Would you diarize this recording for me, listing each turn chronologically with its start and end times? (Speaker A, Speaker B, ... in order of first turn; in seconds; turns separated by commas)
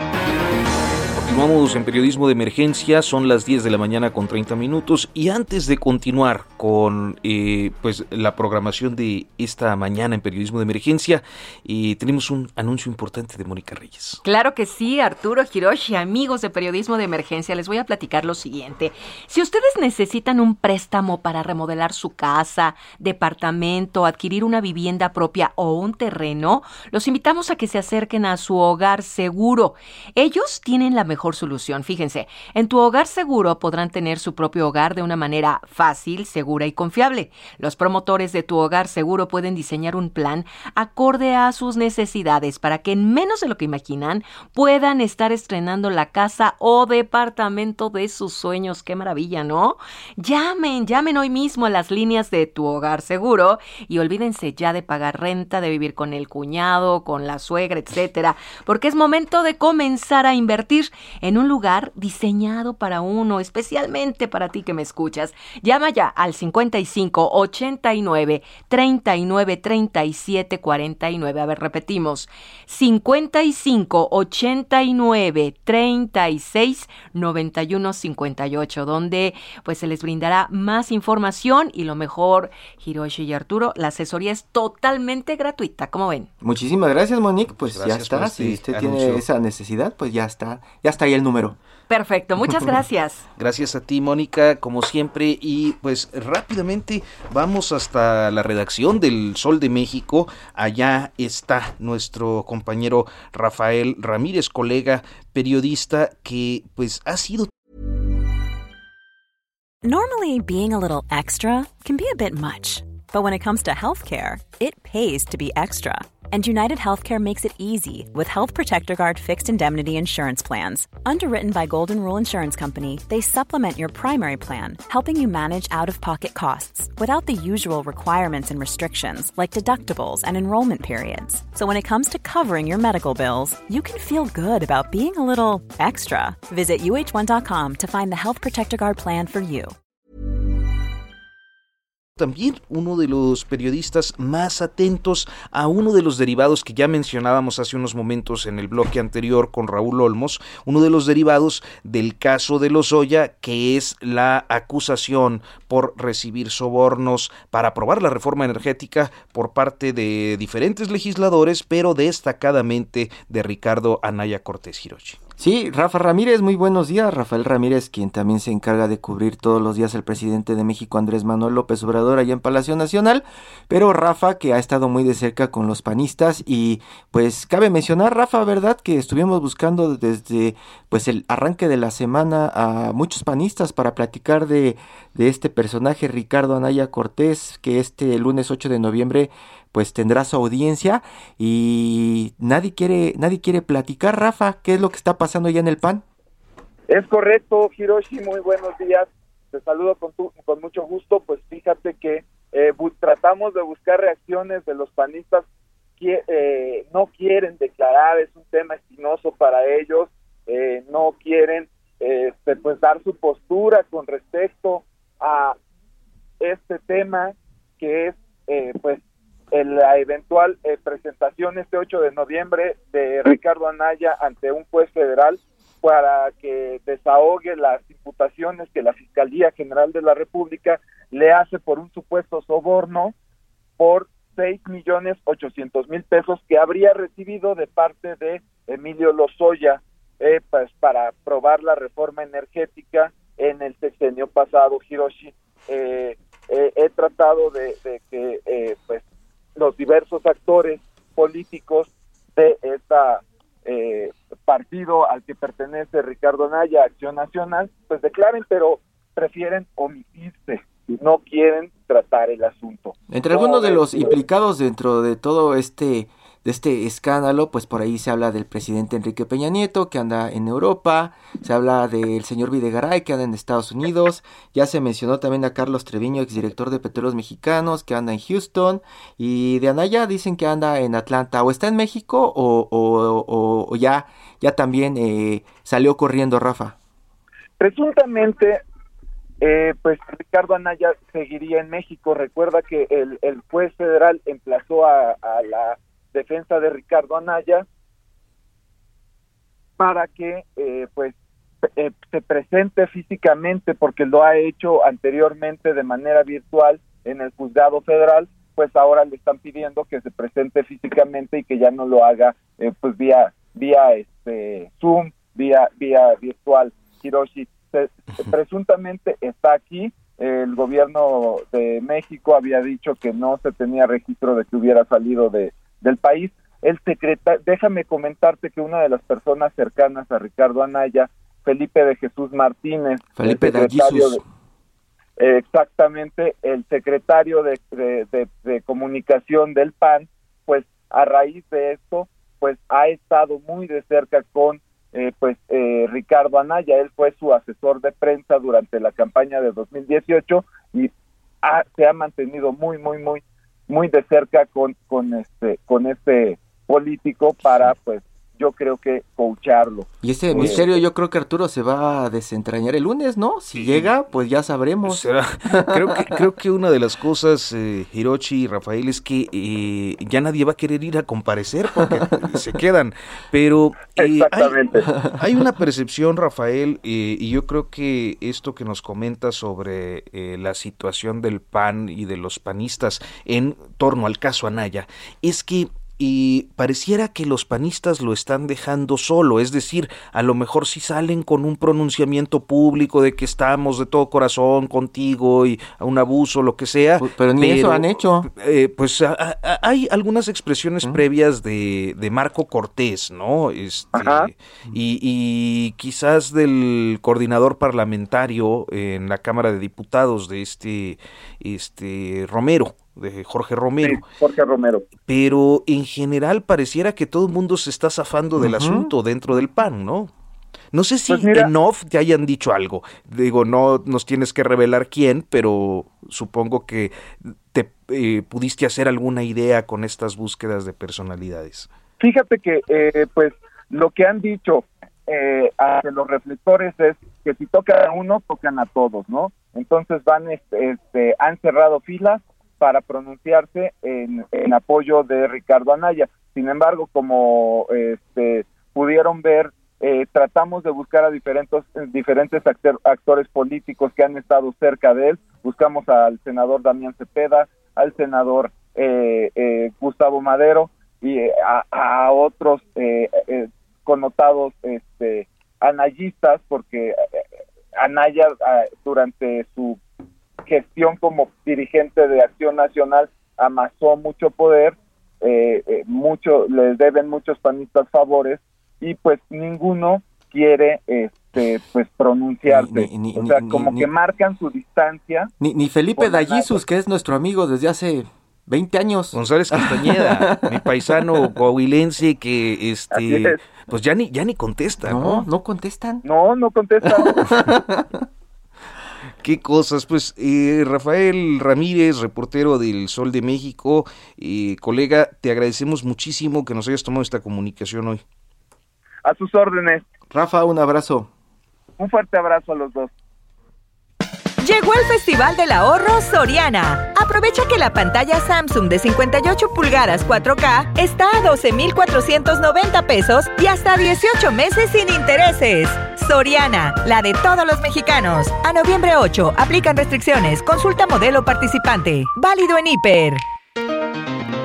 Speaker A: 1.1-14.2, Speaker B: 14.2-86.3, Speaker C: 86.4-91.6, Speaker A: 87.5-89.2, Speaker B: 91.9-93.2, Speaker A: 93.4-107.5, Speaker D: 109.8-139.8, Speaker A: 142.2-165.2, Speaker C: 165.4-196.0, Speaker E: 196.9-205.4, Speaker E: 206.0-215.6, Speaker E: 216.4-219.0, Speaker E: 219.5-233.1, Speaker E: 233.8-249.0, Speaker E: 249.6-264.2, Speaker C: 263.1-286.8, Speaker E: 287.6-288.6, Speaker E: 289.4-297.6, Speaker E: 299.8-301.1, Speaker E: 301.7-334.2, Speaker C: 333.1-334.2, Speaker E: 335.2-350.9, Speaker E: 351.4-360.8, Speaker C: 360.0-366.1, Speaker A: 363.5-363.9, Speaker A: 364.9-414.0, Speaker E: 373.9-374.9, Speaker C: 397.0-398.3, Speaker E: 403.9-404.3, Speaker E: 413.8-414.9, Speaker A: 415.1-420.1, Speaker C: 418.4-418.9, Speaker A: 420.7-426.9, Speaker E: 421.1-421.5, Speaker A: 427.5-431.7, Speaker E: 432.0-467.2, Speaker E: 467.8-469.8, Speaker E: 470.4-485.3, Speaker C: 482.5-483.9, Speaker C: 485.4-491.1, Speaker E: 486.0-486.6, Speaker A: 489.1-495.3, Speaker E: 492.9-493.4, Speaker C: 494.8-496.0, Speaker E: 496.0-497.3, Speaker C: 496.8-498.0, Speaker A: 499.2-508.0, Speaker E: 509.0-509.8, Speaker C: 510.1-511.1, Speaker E: 511.8-512.9, Speaker F: 514.4-533.2